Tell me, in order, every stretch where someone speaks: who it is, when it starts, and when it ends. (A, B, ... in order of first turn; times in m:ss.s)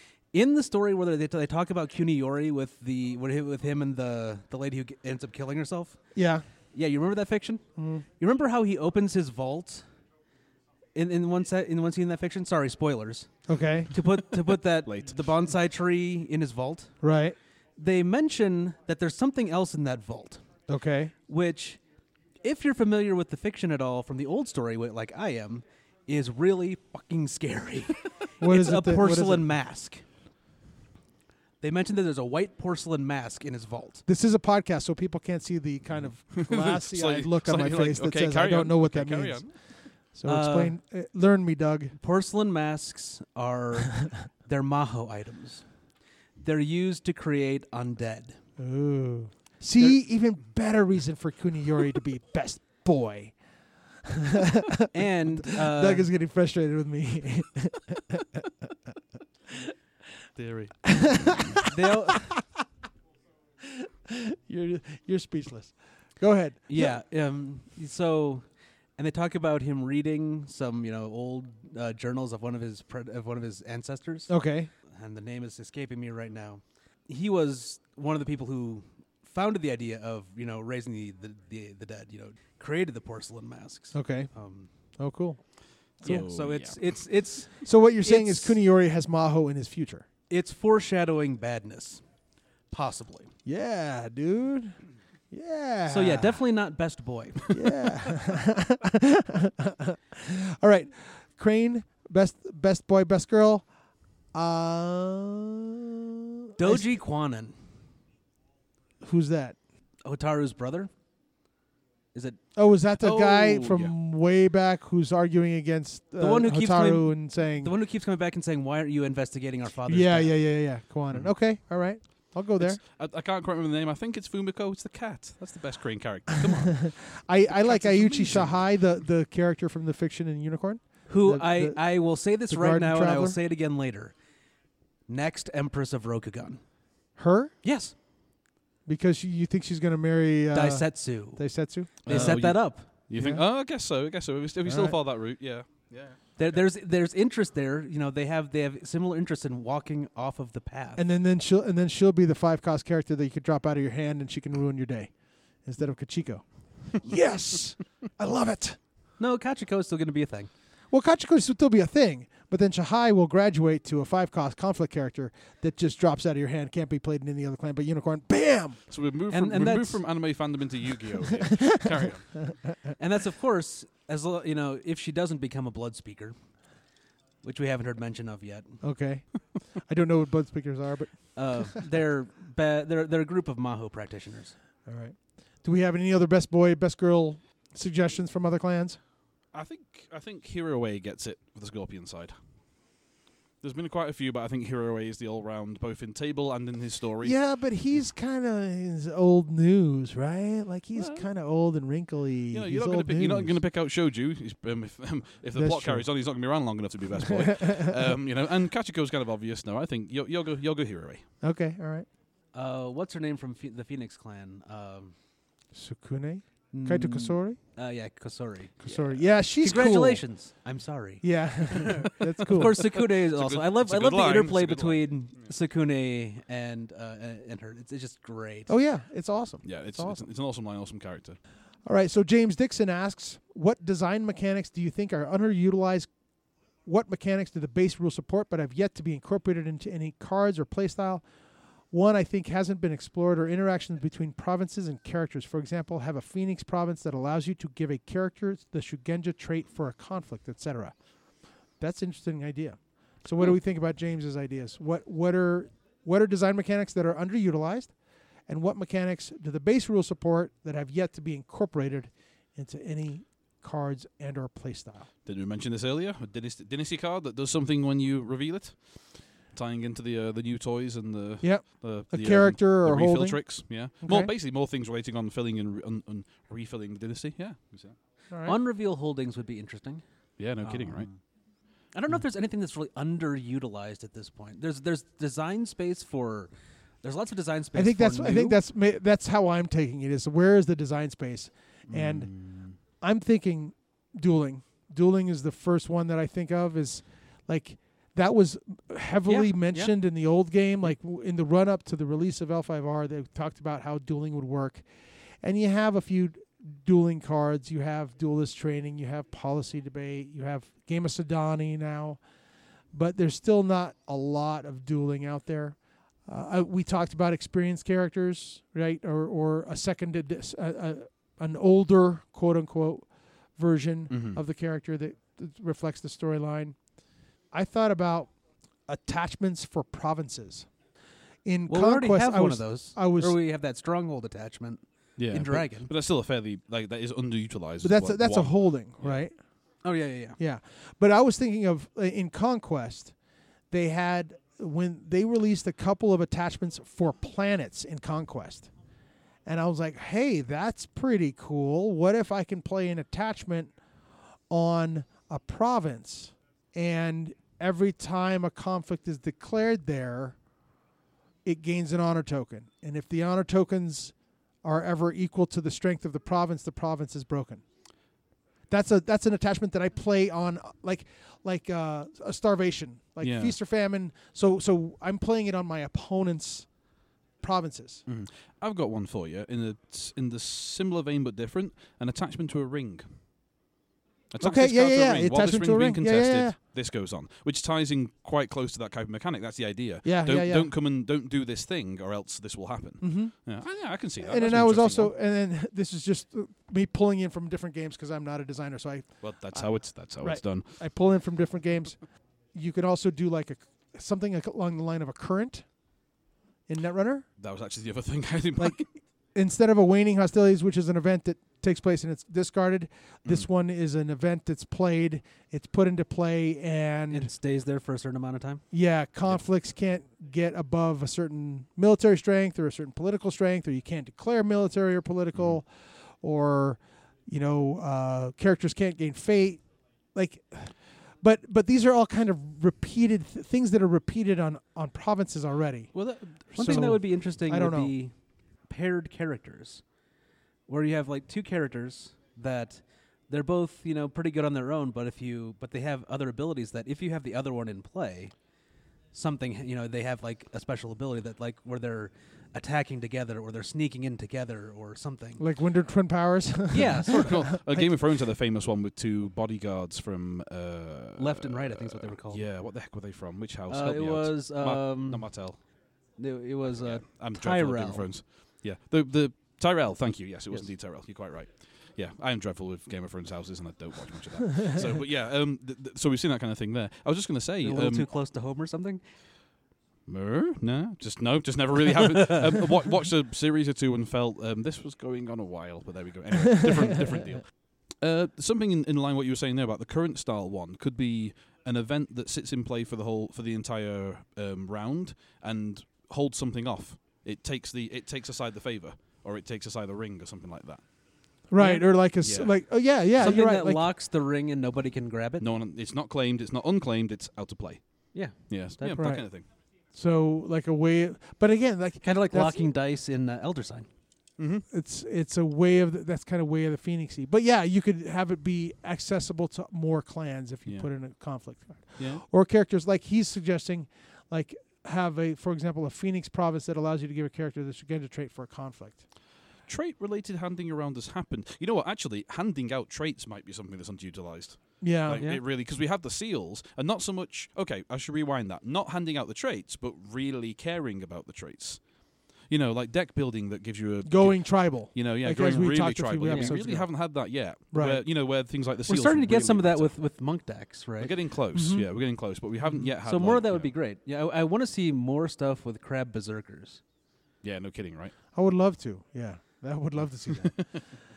0:00.3-0:06.0 A
0:06.1-0:06.4 B
0:06.7-0:07.6 A
0:07.8-0:08.0 B
0:08.2-0:09.8 A
0:10.9-0:13.3 A
0:13.5-0:13.9 B
0:13.9-0:16.9 A
0:14.8-0:15.2 C
0:17.0-0:17.4 B
0:17.8-0:20.4 A
0:20.7-0:21.1 B
0:21.3-0:21.8 A
0:22.4-0:30.0 A
0:28.4-0:29.4 B
0:31.6-0:34.0 A
0:34.1-0:39.5 B
0:36.3-0:39.5 C
0:40.1-0:41.9 B
0:40.2-0:40.7 A
0:42.0-0:45.6 A
0:46.4-0:48.4 A
0:48.6-0:53.3 B
0:54.0-0:58.4 B
0:54.9-0:56.1 A
1:00.4-1:01.5 C
1:00.8-1:02.4 B
1:01.7-1:02.3 A
1:03.6-1:07.0 B
1:06.7-1:08.4 A
1:09.0-1:14.3 A
1:14.3-1:14.7 B
1:14.9-1:24.7 A
1:23.9-1:24.3 B
1:25.0-1:25.4 B
1:26.0-1:27.0 C
1:26.0-1:28.6 A
1:27.6-1:30.0 B
1:30.3-1:32.0 A
1:32.7-1:33.3 A
1:33.4-1:34.8 B
1:35.3-1:36.4 B
1:35.9-1:37.6 A
1:37.5-1:43.6 B
1:44.3-1:46.8 B
1:46.6-1:47.5 A
1:49.0-1:49.6 B
1:50.0-1:50.9 A
1:52.1-1:52.4 A
1:52.5-1:57.7 B
1:53.0-1:53.9 C
1:56.2-2:00.4 A
1:59.9-2:02.8 B
2:02.6-2:07.0 C
2:06.7-2:11.8 B
2:07.5-2:08.6 C
2:11.1-2:14.1 A
2:12.5-2:13.4 B
2:15.1-2:16.6 A
2:17.2-2:17.5 B
2:17.6-2:17.9 A
2:18.8-2:22.4 B
2:20.5-2:21.4 A
2:22.0-2:22.9 A
2:22.0-2:26.6 C
2:23.1-2:23.4 B
2:24.6-2:24.9 B
2:26.4-2:31.0 A
2:31.0-2:35.1 B
2:35.6-2:38.8 B
2:39.2-2:40.5 A
2:40.9-2:48.8 B
2:48.9-2:52.4 C
2:49.3-2:50.0 A
2:51.4-2:51.8 B
2:53.0-2:56.3 A
2:57.4-2:58.8 A
2:58.8-3:01.4 B
3:01.4-3:04.6 A
3:04.8-3:09.0 B
3:09.5-3:12.3 C
3:13.6-3:17.3 C
3:17.2-3:23.6 B
3:21.0-3:21.2 C
3:22.5-3:31.2 C
3:25.6-3:26.0 B
3:27.3-3:27.9 B
3:31.4-3:32.1 B
3:32.5-3:35.1 A
3:35.7-3:37.6 B
3:36.7-3:48.7 A
3:38.8-3:40.2 B
3:41.2-3:42.8 B
3:42.6-3:45.1 C
3:48.7-3:50.2 B
3:49.6-3:51.4 C
3:51.8-3:56.1 B
3:56.8-4:01.2 B
4:01.9-4:10.9 B
4:11.8-4:17.9 B
4:18.5-4:25.1 B
4:25.2-4:38.0 C
4:31.4-4:34.3 B
4:38.3-4:38.6 B
4:38.4-4:40.0 A
4:40.4-4:41.1 C
4:40.6-4:41.1 A
4:41.9-4:46.5 A
4:47.0-4:48.6 A
4:47.7-4:52.3 B
4:51.9-4:52.8 C
4:53.0-5:04.8 B
4:59.3-4:59.9 A
5:05.4-5:12.2 B
5:12.9-5:26.8 B
5:24.1-5:24.4 C
5:27.5-5:28.3 B
5:28.9-5:30.7 B
5:31.4-5:33.3 B
5:31.7-5:35.9 A
5:35.2-5:39.2 C
5:37.8-5:39.4 B
5:39.8-5:40.4 A
5:40.4-5:43.1 B
5:43.7-5:48.7 B
5:49.4-5:53.7 B
5:54.5-6:00.4 B
6:01.4-6:07.6 B
6:08.7-6:16.7 B
6:13.2-6:13.6 C
6:17.4-6:18.0 B
6:18.1-6:23.0 C
6:24.3-6:35.1 C
6:24.4-6:26.6 B
6:30.0-6:30.7 B
6:33.0-6:33.3 B
6:34.2-6:39.7 B
6:39.2-6:40.6 C
6:40.2-6:42.0 B
6:42.5-6:45.6 B
6:46.7-6:47.2 B
6:47.4-6:48.9 C
6:49.3-6:57.3 B
6:57.1-6:58.6 A
6:58.7-7:09.6 B
7:05.3-7:05.6 C
7:10.1-7:17.9 B
7:15.9-7:17.0 C
7:16.5-7:18.1 A
7:18.6-7:19.8 A
7:20.7-7:28.3 A
7:29.1-7:35.4 A
7:35.4-7:37.9 B
7:36.7-7:37.5 A
7:37.0-7:45.6 C
7:41.2-7:42.4 A
7:43.7-7:45.4 A
7:46.2-7:48.1 A
7:46.8-7:58.1 C
7:57.6-7:59.0 A
8:00.1-8:20.8 C
8:21.5-8:23.8 B
8:21.6-8:21.9 A
8:22.2-8:22.5 C
8:23.2-8:25.5 A
8:25.4-8:29.4 C
8:28.1-8:29.2 A
8:28.9-8:29.4 B
8:29.9-8:32.7 B
8:32.0-8:33.9 A
8:34.4-8:34.6 C
8:34.7-8:49.0 B
8:42.0-8:42.2 C
8:49.7-9:01.8 C
8:54.8-8:55.2 B
9:02.4-9:09.9 C
9:04.0-9:06.9 B
9:06.3-9:06.5 A
9:07.7-9:08.0 B
9:08.9-9:11.2 A
9:11.0-9:13.7 C
9:11.5-9:11.8 B
9:12.7-9:16.8 A
9:17.4-9:18.1 C
9:18.3-9:20.8 B
9:20.3-9:20.8 C